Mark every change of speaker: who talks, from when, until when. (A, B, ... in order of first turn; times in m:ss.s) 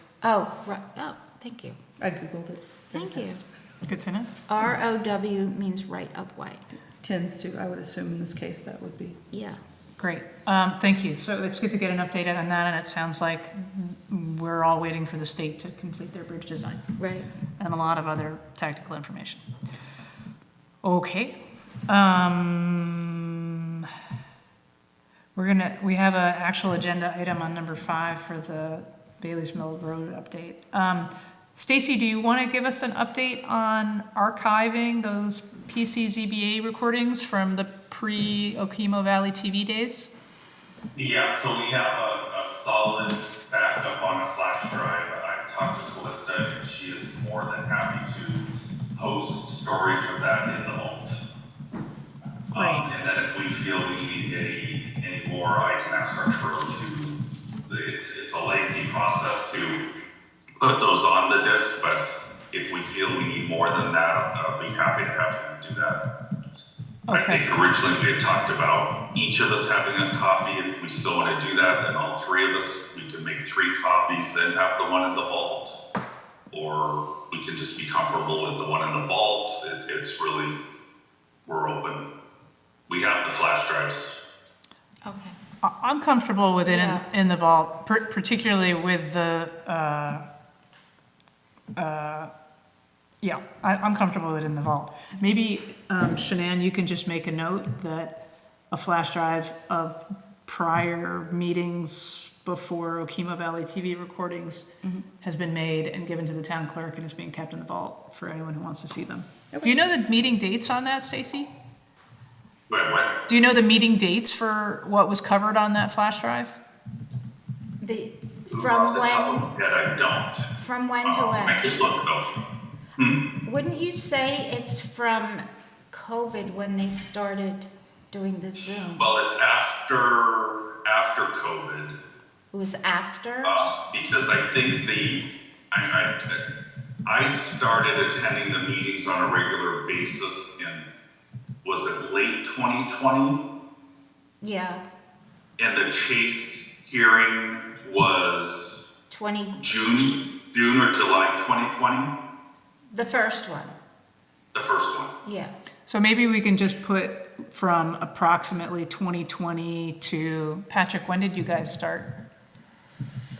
0:00.2-0:01.8 A
0:02.0-0:03.3 B
0:02.9-0:03.4 A
0:03.8-0:04.3 C
0:04.5-0:06.6 A
0:07.0-0:09.2 B
0:09.3-0:09.6 A
0:10.0-0:16.8 C
0:17.0-0:17.3 A
0:17.6-0:19.4 C
0:20.8-0:21.4 C
0:21.9-0:23.1 C
0:25.4-0:40.1 C
0:41.0-0:51.2 D
0:52.5-0:59.8 D
0:52.5-0:52.8 C
1:00.6-1:06.0 D
1:07.1-1:07.4 C
1:07.1-1:15.8 D
1:16.5-1:20.6 D
1:21.4-1:22.1 D
1:22.9-1:24.2 D
1:25.0-1:25.4 A
1:25.6-1:30.2 C
1:26.7-1:27.0 A
1:31.8-1:32.3 C
1:33.2-1:38.2 C
1:38.7-1:51.5 C
1:52.7-1:53.2 D
1:53.3-1:56.6 C
1:57.8-1:59.4 A
1:58.5-2:00.5 D
2:00.6-2:01.8 A
2:01.0-2:02.4 D
2:03.0-2:03.2 D
2:03.4-2:09.0 A
2:08.6-2:12.0 D
2:12.5-2:13.7 A
2:13.4-2:16.4 D
2:17.0-2:20.9 D
2:21.6-2:23.4 D
2:24.4-2:24.8 A
2:25.6-2:28.8 D
2:29.1-2:30.0 A
2:29.6-2:32.1 D
2:32.9-2:33.8 A
2:34.5-2:35.1 D
2:35.2-2:35.5 A
2:35.9-2:42.1 C